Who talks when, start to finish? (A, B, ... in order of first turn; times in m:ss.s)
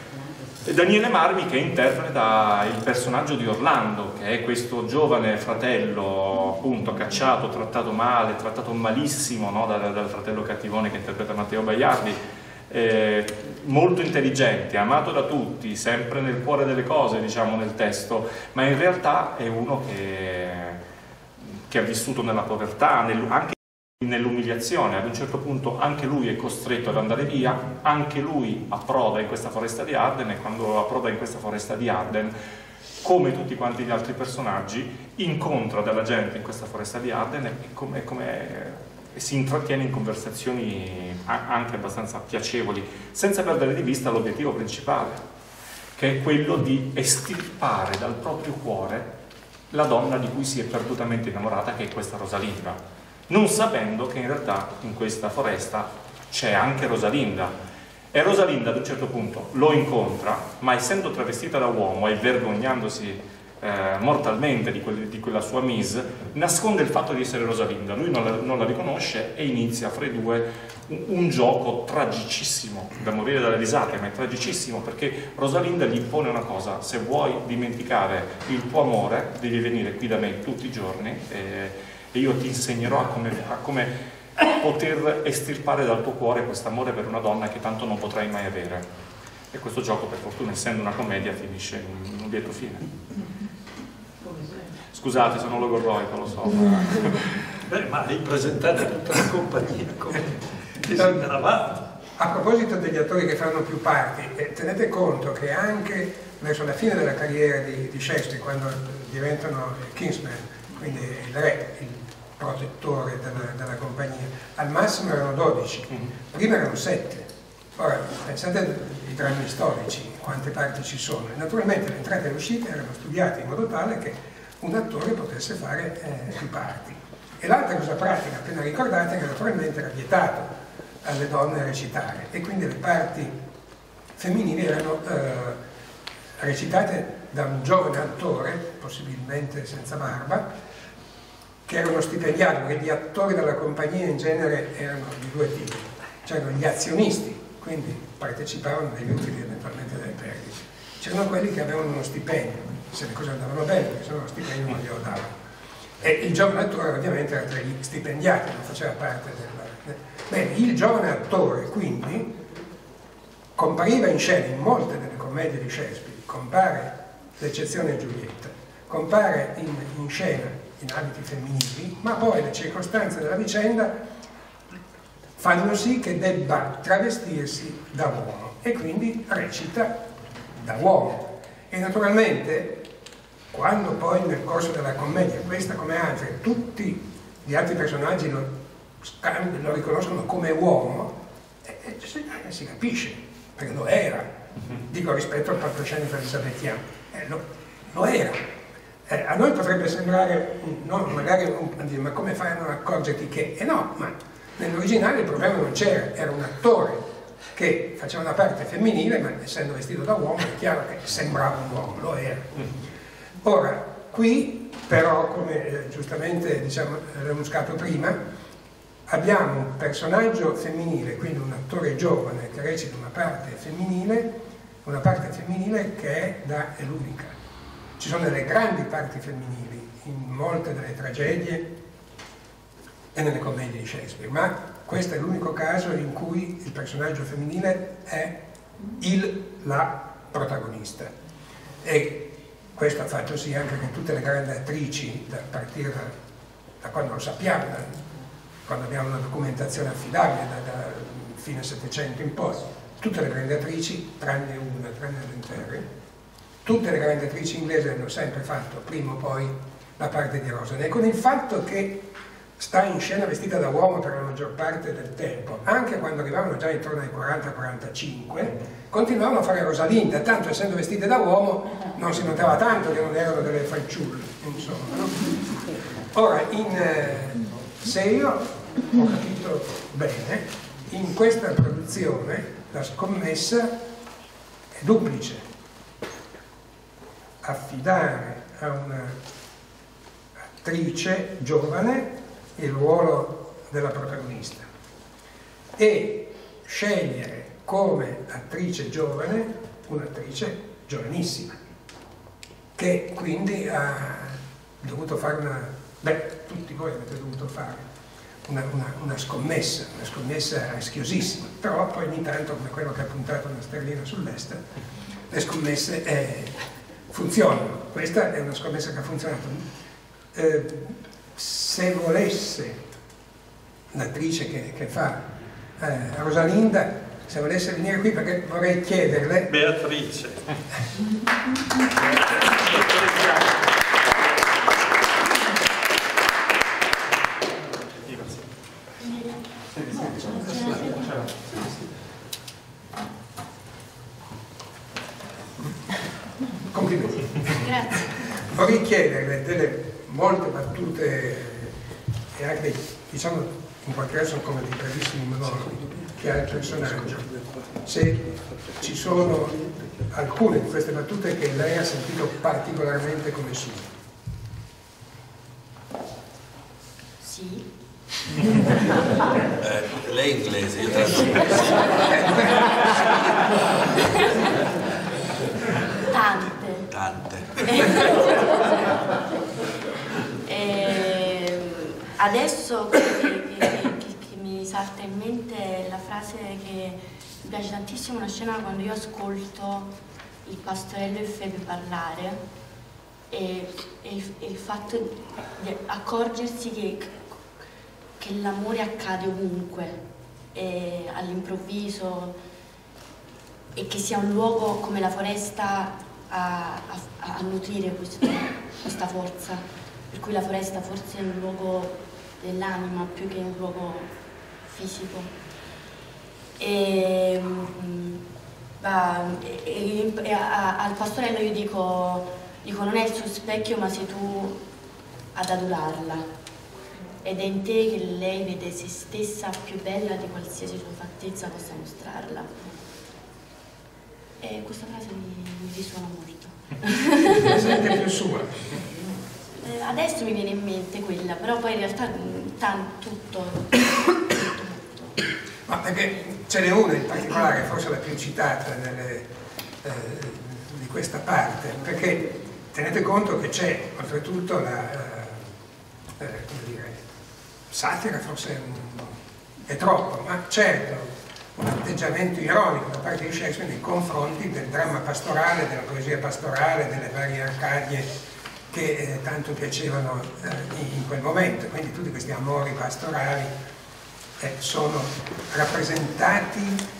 0:00.6-0:20.8 A
0:21.7-0:32.4 A
0:33.0-0:45.2 A
0:46.0-0:49.1 A
0:49.7-0:57.5 A
0:58.1-1:28.8 A
1:29.5-1:32.9 A
1:34.9-1:37.4 A
1:37.7-1:41.8 B
1:42.2-2:13.3 C
2:14.2-2:15.6 C
2:16.4-2:20.5 C
2:21.6-2:35.3 C
2:36.0-2:42.3 C
2:43.6-2:53.9 C
2:55.4-3:00.0 C
3:00.5-3:02.8 C
3:03.5-3:08.5 C
3:09.0-3:18.4 C
3:19.0-3:32.7 C
3:33.4-3:38.2 C
3:39.1-3:47.4 C
3:48.0-3:51.7 C
3:53.1-3:58.4 C
3:59.0-4:01.1 C
4:01.8-4:06.2 C
4:06.8-4:08.0 C
4:08.6-4:15.9 C
4:16.6-4:22.0 C
4:22.6-4:43.7 C
4:44.7-4:45.4 C
4:47.4-4:49.2 C
4:50.6-4:54.7 C
4:55.8-5:01.6 C
5:02.8-5:07.8 C
5:08.4-5:14.6 C
5:15.3-5:16.6 C
5:17.1-5:19.6 C
5:20.3-5:22.8 C
5:23.9-5:25.2 C
5:25.8-5:29.5 C
5:29.5-5:30.4 B
5:32.4-5:33.5 B
5:38.1-5:38.4 A
5:39.1-5:39.4 D
5:40.3-5:41.0 D
5:46.7-5:51.8 C
5:47.6-5:47.9 D
5:52.3-6:03.9 C
6:07.2-6:07.7 D
6:09.6-6:12.7 E
6:11.1-6:12.2 D
6:14.1-6:14.5 D
6:16.1-6:16.9 D
6:16.9-6:18.4 E
6:17.6-6:19.0 D
6:20.4-6:29.9 D
6:30.4-6:32.4 D
6:33.3-6:37.3 D
6:38.2-6:40.0 D
6:40.5-6:42.4 D
6:43.7-6:54.1 D
6:54.6-6:55.3 D
6:56.6-6:58.2 D
6:58.8-7:04.6 D
7:05.3-7:06.2 D
7:07.2-7:12.5 D
7:14.4-7:18.0 D
7:17.4-7:18.6 C
7:19.6-7:24.2 D
7:25.7-7:29.3 C
7:29.8-7:35.5 C
7:36.2-7:37.0 C
7:37.7-7:48.1 C
7:48.7-7:53.5 C
7:54.4-7:56.8 C